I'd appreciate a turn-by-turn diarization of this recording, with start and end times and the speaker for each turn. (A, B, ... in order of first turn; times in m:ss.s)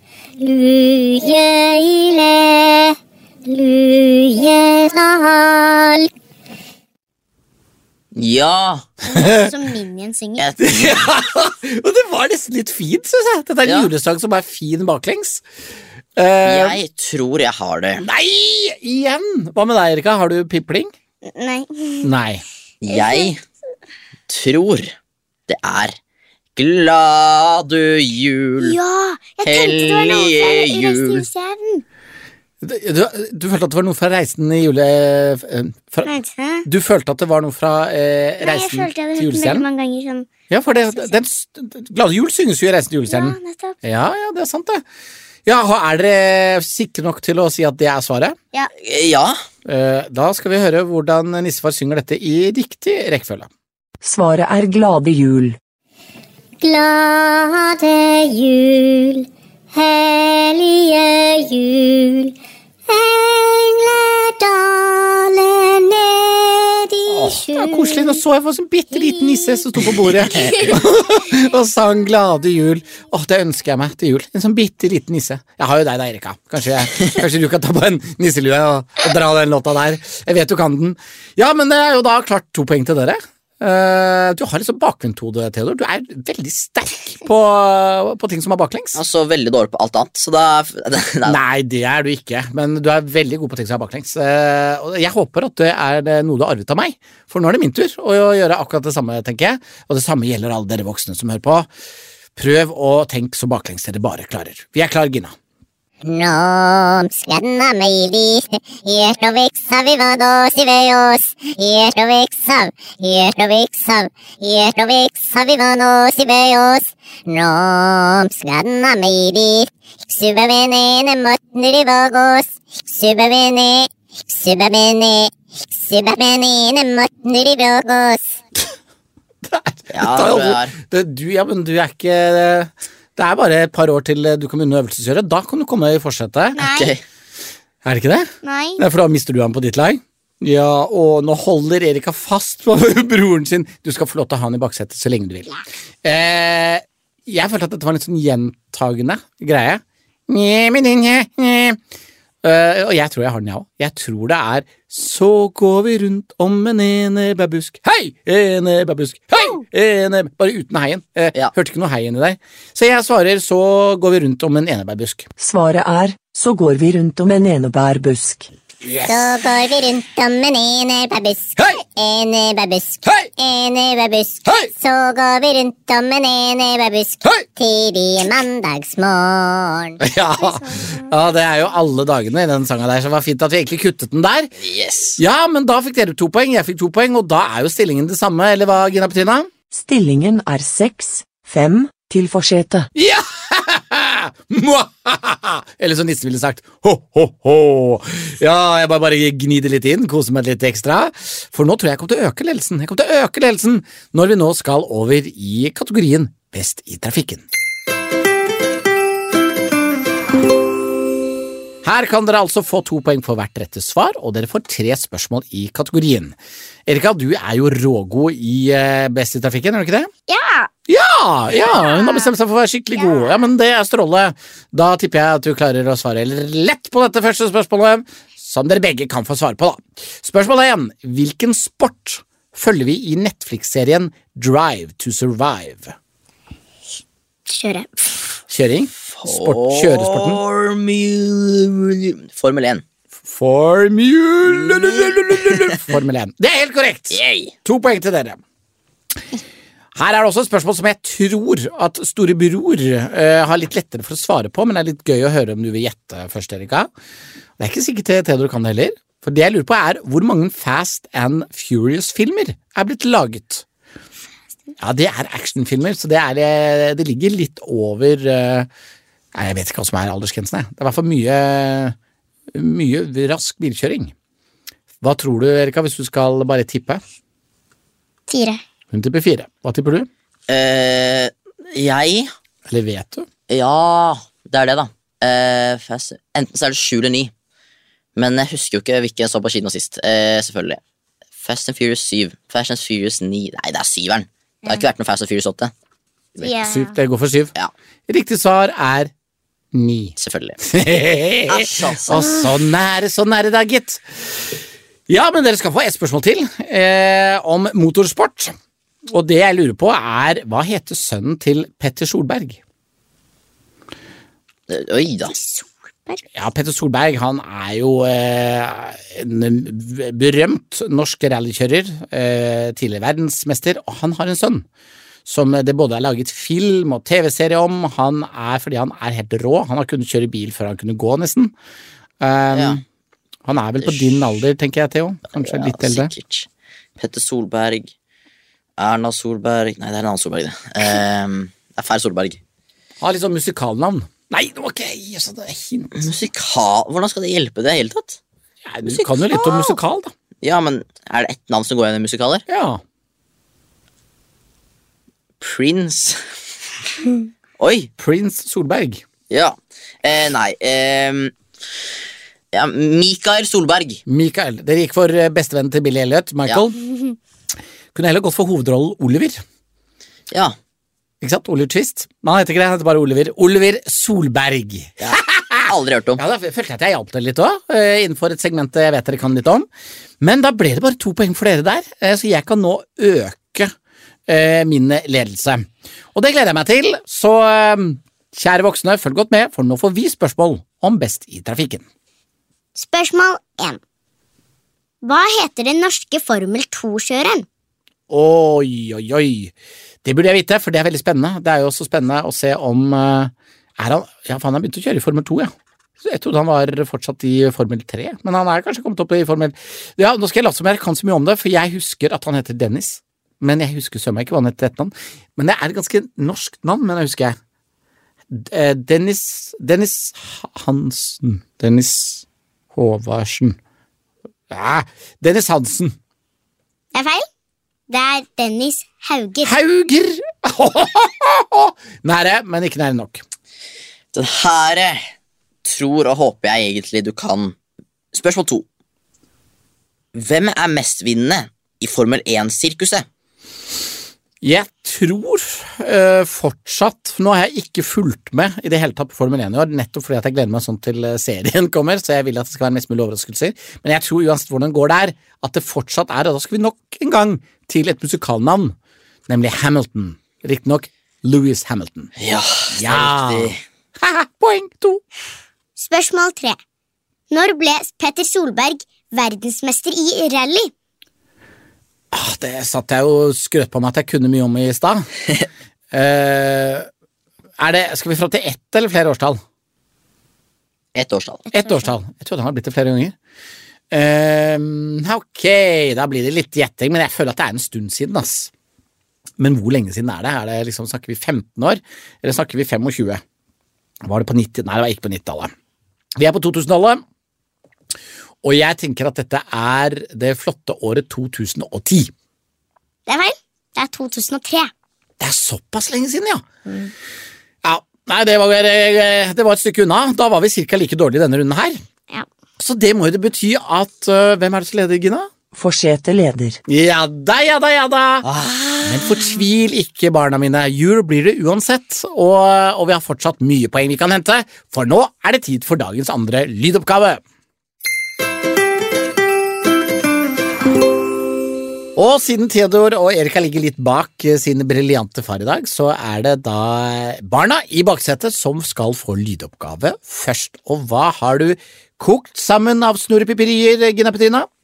0:00.4-0:02.9 A
0:03.4-0:06.0 A
0:08.1-0:08.9 B
0:09.0-0:10.5 C
0:09.1-0:09.5 D
0:10.4-0:11.0 B
0:10.6-0:15.4 D
0:13.6-0:13.9 B
0:16.2-0:16.8 D
0:16.4-0:18.0 B
0:18.0-0:20.9 D
0:21.2-0:22.1 C
0:22.0-0:22.4 D
0:22.8-0:23.4 B
0:22.9-0:23.4 C
0:24.3-0:24.9 B
0:25.5-0:26.0 B
0:26.6-0:28.8 B
0:28.6-0:31.8 C
0:29.4-0:31.2 B
0:32.6-0:36.1 D
0:36.0-0:36.7 C
0:36.6-0:39.6 D
0:38.4-0:41.1 C
0:40.5-0:44.8 D
0:43.1-0:43.8 C
0:45.4-0:48.4 D
0:48.8-0:49.4 B
0:49.6-0:53.5 D
0:54.0-0:55.6 E
0:56.6-0:59.2 A
0:59.7-1:02.3 A
1:02.9-1:07.0 A
1:07.1-1:29.0 D
1:07.7-1:08.0 C
1:10.2-1:10.5 B
1:10.3-1:10.8 C
1:28.9-1:31.4 B
1:31.2-1:41.7 D
1:42.4-1:45.3 D
1:46.0-2:08.3 A
2:09.4-2:16.6 D
2:09.9-2:10.7 B
2:16.6-2:16.9 C
2:16.6-2:17.0 B
2:17.8-2:31.8 D
2:18.4-2:18.8 C
2:32.4-2:45.3 D
2:45.4-2:48.5 E
2:48.8-2:49.4 D
2:49.0-3:00.0 A
3:00.0-3:04.5 D
3:00.4-3:01.1 C
3:04.6-3:05.2 B
3:05.2-3:09.5 D
3:09.7-3:12.9 E
3:12.9-3:27.4 D
3:31.8-3:36.4 D
3:36.9-3:40.1 D
3:40.3-3:40.7 C
3:40.9-3:55.9 D
3:41.8-3:42.3 C
3:43.0-3:43.3 C
3:57.5-3:58.2 C
3:58.5-4:00.4 D
3:59.1-4:02.8 B
4:03.2-4:08.4 D
4:04.6-4:05.8 B
4:07.1-4:07.5 B
4:09.9-4:16.9 D
4:17.6-4:23.6 D
4:24.8-4:28.7 D
4:29.3-4:32.0 D
4:32.5-4:34.1 D
4:35.0-4:37.0 D
4:38.3-4:38.6 C
4:38.9-4:40.1 D
4:40.5-4:42.3 B
4:42.7-4:43.3 D
4:43.5-4:47.3 B
4:48.2-4:50.8 B
4:51.4-4:55.7 B
4:56.4-4:56.9 C
4:56.4-4:57.5 D
4:58.1-4:59.1 D
4:59.7-5:04.5 D
5:00.2-5:00.6 B
5:01.5-5:02.2 B
5:05.1-5:08.5 D
5:09.1-5:12.6 D
5:14.7-5:15.3 B
5:15.3-5:16.2 C
5:16.3-5:24.6 D
5:25.2-5:31.5 D
5:32.2-5:32.8 D
5:32.5-5:32.8 B
5:33.4-5:36.1 D
5:33.8-5:34.1 B
5:35.3-5:37.9 B
5:38.8-5:42.4 B
5:43.0-5:46.1 D
5:46.0-5:48.2 B
5:48.6-5:50.1 D
5:48.8-5:49.7 B
5:50.4-5:52.4 B
5:52.5-5:52.8 D
5:55.4-5:56.2 B
5:57.6-5:57.9 B
5:58.0-5:59.0 D
5:59.3-6:01.3 B
6:02.5-6:04.0 B
6:04.1-6:06.8 D
6:07.9-6:09.4 D
6:11.2-6:19.7 D
6:15.0-6:16.2 B
6:20.2-6:23.7 D
6:24.3-6:31.8 D
6:32.7-6:33.8 C
6:35.0-6:37.4 C
6:38.1-6:39.5 D
6:40.0-6:57.4 D
6:58.3-7:03.6 D
7:04.5-7:06.0 D
7:06.9-7:07.2 C
7:07.9-7:09.5 C
7:09.4-7:13.2 D
7:14.1-7:15.1 B
7:15.6-7:17.6 B
7:18.1-7:18.6 B
7:20.1-7:23.0 B
7:24.4-7:38.7 D
7:39.3-7:42.1 D
7:42.2-7:43.6 B
7:42.7-7:45.0 D
7:45.8-7:46.6 C
7:47.3-7:50.7 C
7:52.1-7:55.1 D
7:55.9-7:56.9 D
7:57.6-7:59.4 D
8:00.9-8:01.4 B
8:01.5-8:03.1 D
8:03.9-8:08.5 D
8:09.4-8:13.2 D
8:14.0-8:15.5 D
8:16.2-8:17.0 D
8:18.4-8:22.1 D
8:23.1-8:24.7 C
8:25.2-8:26.4 D
8:27.6-8:31.8 D
8:32.6-8:35.3 D
8:35.5-8:36.6 E
8:36.7-8:38.3 D
8:38.2-8:39.3 B
8:38.8-8:47.2 D
8:52.0-9:04.5 D